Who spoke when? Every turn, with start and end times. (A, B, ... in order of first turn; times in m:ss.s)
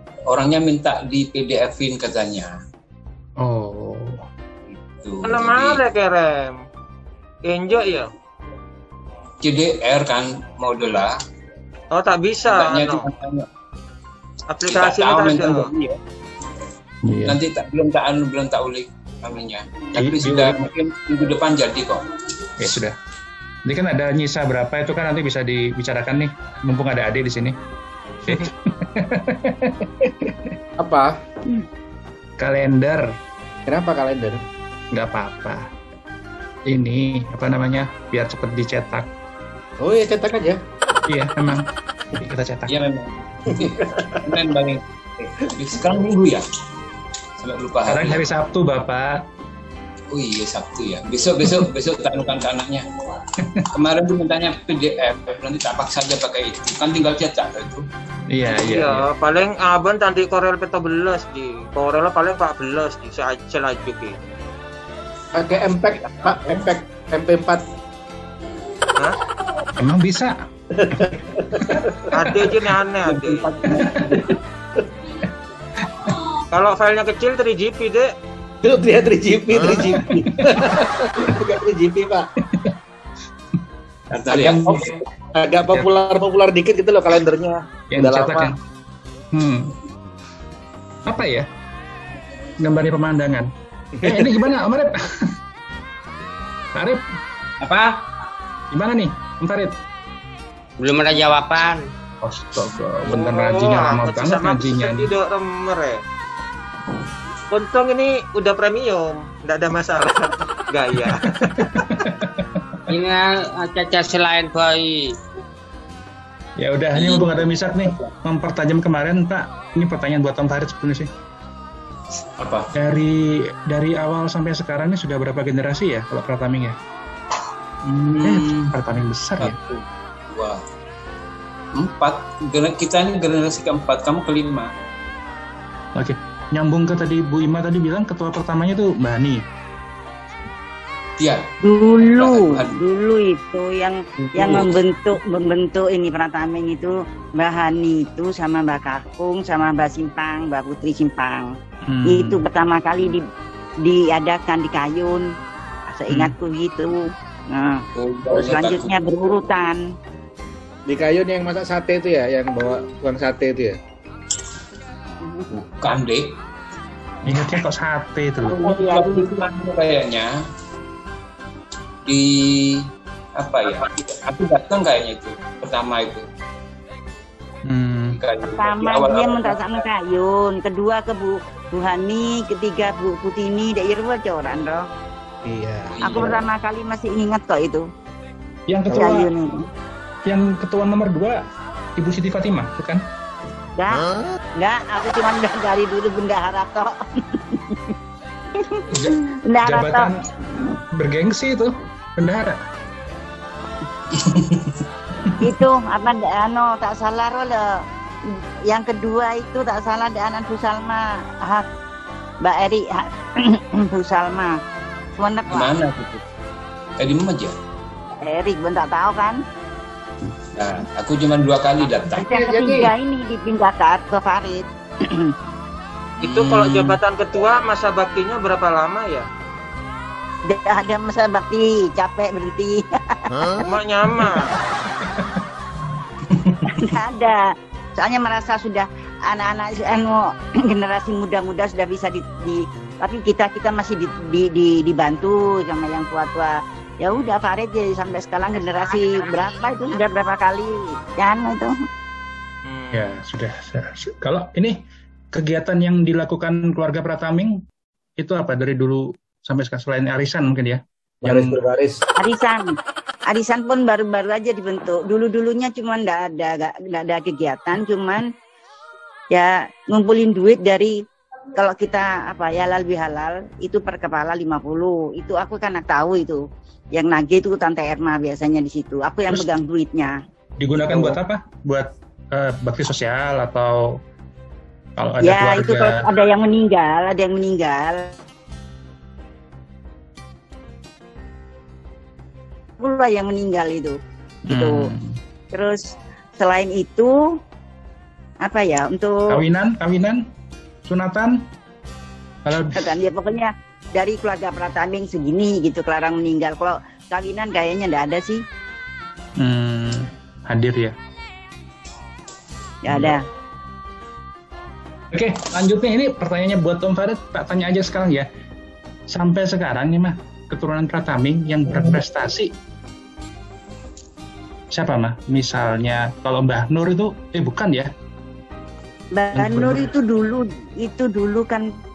0:00.3-0:02.5 A
0:03.4-0:04.2 B
0:04.7-0:05.8 A
0:05.2-0:06.6 C
0:07.4-0:08.1 C
0:09.4-0:11.1 A
0:11.9-0:13.0 C
0:12.4-0:13.5 A
0:14.5-0:15.7 C
0:14.7-0:16.0 A
0:17.0-0:17.4 B
0:17.2-0:22.1 A
0:20.0-0:20.7 B
0:22.6-0:23.0 B
0:23.6-0:27.6 B
0:28.2-0:30.5 B
0:30.8-0:31.2 D
0:32.4-0:33.0 B
0:33.7-0:34.4 D
0:34.9-0:35.7 B
0:36.7-0:39.1 B
0:39.8-0:40.6 D
0:41.1-0:42.7 B
0:42.7-0:46.4 A
0:43.5-0:44.1 D
0:47.4-0:48.2 A
0:47.9-0:49.2 B
0:50.1-0:52.8 A
0:53.4-0:53.7 B
0:53.7-0:57.8 A
0:58.3-0:59.1 B
0:58.5-1:04.2 C
1:05.3-1:07.6 D
1:06.3-1:06.6 A
1:09.8-1:10.4 B
1:10.7-1:12.0 D
1:12.1-1:13.5 C
1:13.1-1:14.2 A
1:13.7-1:14.4 D
1:15.8-1:16.2 B
1:16.5-1:18.1 C
1:18.6-1:22.3 D
1:19.7-1:20.6 B
1:22.4-1:22.8 B
1:24.1-1:24.9 A
1:24.3-1:24.9 B
1:24.4-1:28.5 D
1:27.9-1:28.6 B
1:29.3-1:29.8 B
1:31.0-1:31.5 B
1:32.6-1:33.5 B
1:34.0-1:34.4 D
1:34.0-1:35.3 B
1:36.7-1:37.0 B
1:37.6-1:37.9 E
1:38.7-1:39.8 B
1:40.8-1:41.9 E
1:42.2-1:45.1 B
1:43.0-1:46.0 C
1:47.5-1:51.2 C
1:51.3-1:52.8 B
1:52.9-1:55.2 E
1:56.6-2:01.1 B
1:56.9-1:57.9 A
2:02.4-2:02.7 A
2:02.7-2:06.8 B
2:07.8-2:08.7 A
2:08.2-2:09.6 B
2:09.4-2:10.6 A
2:11.7-2:14.7 A
2:15.9-2:19.4 B
2:21.2-2:21.4 A
2:21.6-2:31.5 F
2:22.0-2:22.7 A
2:24.3-2:24.7 A
2:31.8-2:32.4 B
2:32.1-2:33.2 F
2:33.8-2:35.3 F
2:35.9-2:39.8 F
2:38.0-2:38.9 A
2:40.9-2:43.8 D
2:45.5-2:46.3 A
2:47.2-2:48.6 B
2:48.6-2:50.3 A
2:48.6-2:49.3 F
2:52.0-2:56.2 A
2:57.6-2:58.2 B
2:58.1-2:59.8 A
2:58.4-3:04.8 F
3:05.4-3:06.4 D
3:05.9-3:06.4 A
3:06.0-3:07.8 F
3:08.7-3:09.3 B
3:08.9-3:09.6 F
3:10.2-3:11.4 B
3:12.0-3:13.0 B
3:13.8-3:17.9 F
3:18.6-3:20.1 F
3:18.9-3:20.2 B
3:20.9-3:22.6 B
3:24.2-3:24.7 B
3:25.4-3:27.7 F
3:28.3-3:31.6 F
3:32.4-3:34.6 F
3:35.2-3:35.7 F
3:35.5-3:36.2 A
3:37.0-3:37.5 A
3:38.2-3:39.4 F
3:40.6-3:42.3 A
3:42.2-3:42.9 E
3:42.2-3:45.3 F
3:46.2-3:49.2 C
3:46.2-3:47.0 A
3:50.5-3:52.8 F
3:53.6-3:54.5 C
3:55.0-3:55.4 B
3:56.3-3:56.6 B
3:56.7-3:57.4 F
3:58.0-4:11.7 F
4:12.6-4:13.1 C
4:12.9-4:14.8 B
4:15.3-4:17.5 B
4:18.2-4:21.6 B
4:21.2-4:22.0 D
4:22.2-4:22.7 F
4:23.3-4:28.2 F
4:29.3-4:31.0 F
4:31.6-4:36.4 F
4:36.9-4:40.1 F
4:40.6-4:43.8 B
4:45.0-4:46.0 B
4:45.2-4:48.1 F
4:52.8-4:54.0 F
4:54.5-4:54.9 F
4:54.5-4:55.2 B
4:55.5-4:57.2 F
4:58.4-4:59.2 F
4:59.3-5:00.2 B
5:00.8-5:01.4 B
5:02.4-5:02.9 B
5:02.7-5:08.4 F
5:09.4-5:10.9 B
5:12.8-5:13.2 F
5:12.9-5:13.1 B
5:15.1-5:18.3 B
5:19.1-5:22.5 B
5:24.7-5:27.9 B
5:29.1-5:31.7 F
5:29.3-5:29.9 B